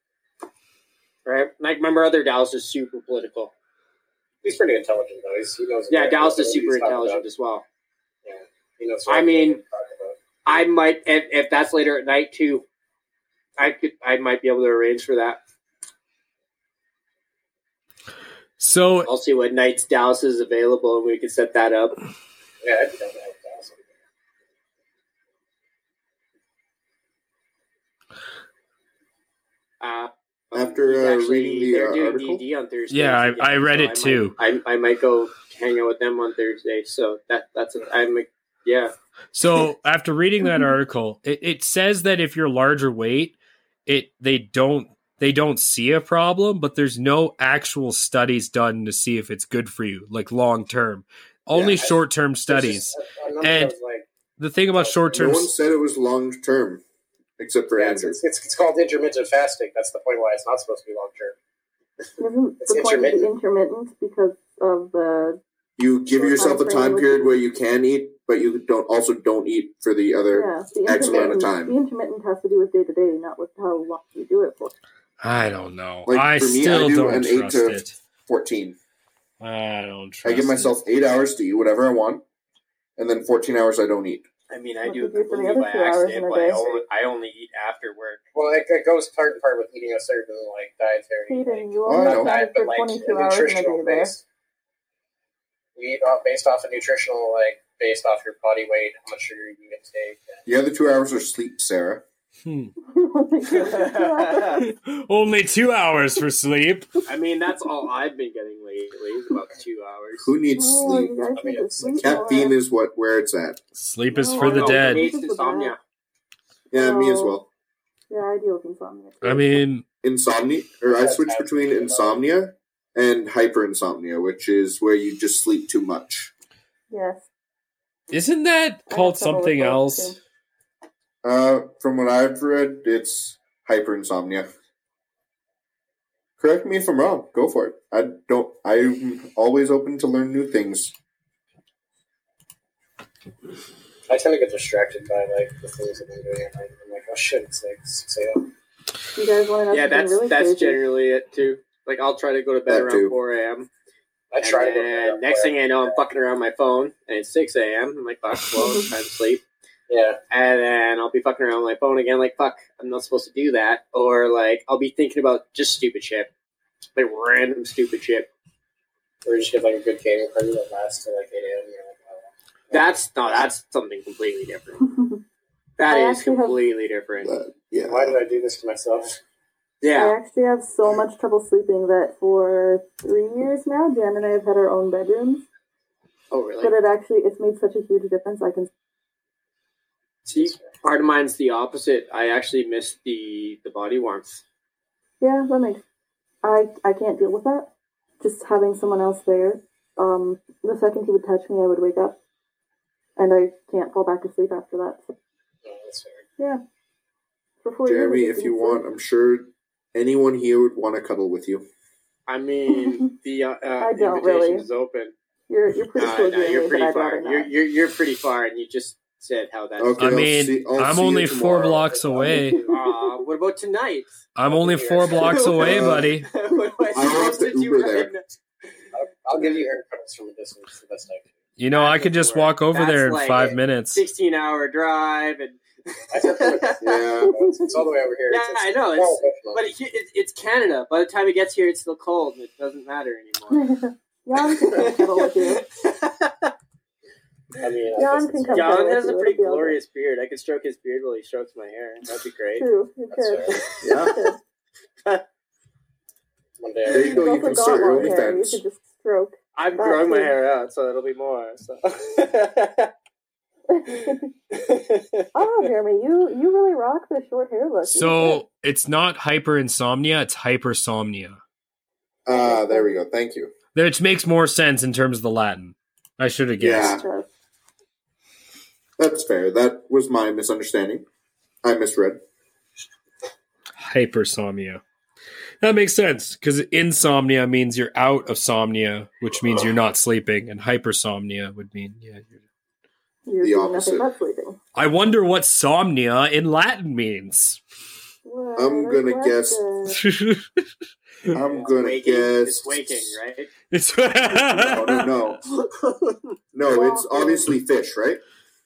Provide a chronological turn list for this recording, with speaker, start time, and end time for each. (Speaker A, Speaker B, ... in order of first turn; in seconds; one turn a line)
Speaker A: 1.2-3.5
Speaker B: 4.4-7.2
Speaker A: 5.9-7.6
Speaker B: 8.2-10.2
Speaker A: 9.1-9.6
Speaker A: 10.4-12.6
Speaker A: 13.6-15.4
Speaker C: 18.6-19.1
Speaker A: 19.1-22.0
Speaker B: 22.6-23.8
Speaker A: 29.8-38.9
Speaker D: 30.5-32.4
Speaker C: 32.9-34.4
Speaker C: 39.3-53.7
Speaker B: 51.5-51.9
Speaker B: 52.5-54.1
Speaker C: 54.4-55.5
Speaker B: 54.8-55.4
Speaker D: 55.1-56.8
Speaker D: 57.4-58.2
Speaker B: 57.8-61.3
Speaker E: 62.2-65.4
Speaker B: 62.6-63.3
Speaker D: 65.8-71.8
Speaker B: 66.1-66.5
Speaker E: 66.3-67.3
Speaker E: 70.3-74.7
Speaker C: 75.2-77.9
Speaker D: 76.0-78.8
Speaker C: 79.4-80.8
Speaker D: 80.2-82.2
Speaker D: 83.0-84.2
Speaker A: 84.5-88.2
Speaker E: 84.8-86.8
Speaker B: 88.3-94.2
Speaker E: 91.3-94.1
Speaker D: 91.8-92.3
Speaker B: 95.8-100.4
Speaker D: 100.5-102.0
Speaker C: 102.4-102.7
Speaker E: 102.8-104.7
Speaker A: 103.5-104.6
Speaker C: 104.6-107.0
Speaker A: 107.1-110.3
Speaker D: 110.2-111.1
Speaker E: 110.5-112.6
Speaker B: 111.3-112.2
Speaker D: 112.0-113.6
Speaker C: 113.7-115.1
Speaker E: 114.1-115.7
Speaker A: 114.3-115.8
Speaker E: 116.7-117.4
Speaker D: 116.7-117.5
Speaker E: 118.1-119.6
Speaker C: 119.2-119.8
Speaker D: 120.0-126.3
Speaker B: 120.8-122.2
Speaker E: 126.9-127.2
Speaker C: 128.1-130.2
Speaker E: 128.9-130.2
Speaker D: 131.2-134.5
Speaker D: 136.4-140.9
Speaker B: 144.1-148.5
Speaker E: 149.1-150.8
Speaker A: 149.7-153.7
Speaker D: 152.7-153.1
Speaker B: 154.3-156.0
Speaker A: 154.4-159.4
Speaker E: 158.6-158.9
Speaker B: 159.9-160.2
Speaker A: 160.3-166.3
Speaker A: 166.9-168.3
Speaker B: 169.2-173.4
Speaker A: 172.7-174.8
Speaker E: 174.8-175.2
Speaker A: 175.8-177.3
Speaker E: 175.9-176.6
Speaker D: 177.2-178.2
Speaker B: 177.8-179.1
Speaker A: 179.8-180.2
Speaker E: 179.9-185.4
Speaker A: 186.3-186.7
Speaker E: 186.6-188.7
Speaker A: 190.2-194.4
Speaker B: 190.4-190.6
Speaker E: 195.2-195.8
Speaker E: 196.4-197.7
Speaker E: 198.2-202.2
Speaker E: 203.2-205.1
Speaker B: 205.6-206.2
Speaker E: 207.6-208.8
Speaker D: 207.8-211.7
Speaker A: 212.3-215.1
Speaker E: 212.7-213.1
Speaker E: 213.8-214.7
Speaker E: 215.5-217.5
Speaker A: 215.9-220.2
Speaker D: 219.8-221.8
Speaker C: 220.0-222.6
Speaker B: 221.4-222.8
Speaker E: 222.2-222.6
Speaker A: 222.7-224.1
Speaker C: 224.3-226.3
Speaker B: 224.5-225.6
Speaker A: 225.0-228.3
Speaker D: 225.6-226.2
Speaker D: 226.9-228.1
Speaker B: 228.9-231.2
Speaker A: 229.3-229.6
Speaker C: 231.6-234.0
Speaker A: 231.7-236.8
Speaker B: 236.1-239.6
Speaker D: 236.8-237.3
Speaker E: 237.2-237.8
Speaker A: 238.3-243.7
Speaker E: 243.5-245.7
Speaker A: 244.5-246.5
Speaker B: 247.6-249.0
Speaker E: 247.9-249.8
Speaker A: 248.5-252.6
Speaker E: 252.5-254.4
Speaker B: 253.1-253.6
Speaker A: 253.5-254.2
Speaker D: 253.8-254.2
Speaker B: 256.6-257.1
Speaker D: 256.9-258.6
Speaker E: 256.9-260.3
Speaker A: 259.6-262.9
Speaker E: 263.7-264.3
Speaker A: 264.5-265.3
Speaker E: 265.3-268.4
Speaker C: 267.8-271.4
Speaker D: 272.2-273.5
Speaker E: 272.3-273.0
Speaker C: 273.7-277.0
Speaker D: 276.6-277.0
Speaker E: 276.7-277.3
Speaker D: 279.0-281.0
Speaker D: 281.6-282.2
Speaker C: 283.8-284.8
Speaker C: 285.6-292.4
Speaker E: 293.2-294.6
Speaker D: 293.4-294.1
Speaker C: 294.7-297.6
Speaker E: 298.2-300.0
Speaker D: 298.6-299.6
Speaker C: 299.9-300.6
Speaker D: 301.3-303.1
Speaker A: 301.4-303.5
Speaker C: 303.7-305.1
Speaker D: 304.5-305.4
Speaker A: 305.6-306.2
Speaker D: 306.5-308.2
Speaker E: 306.7-307.5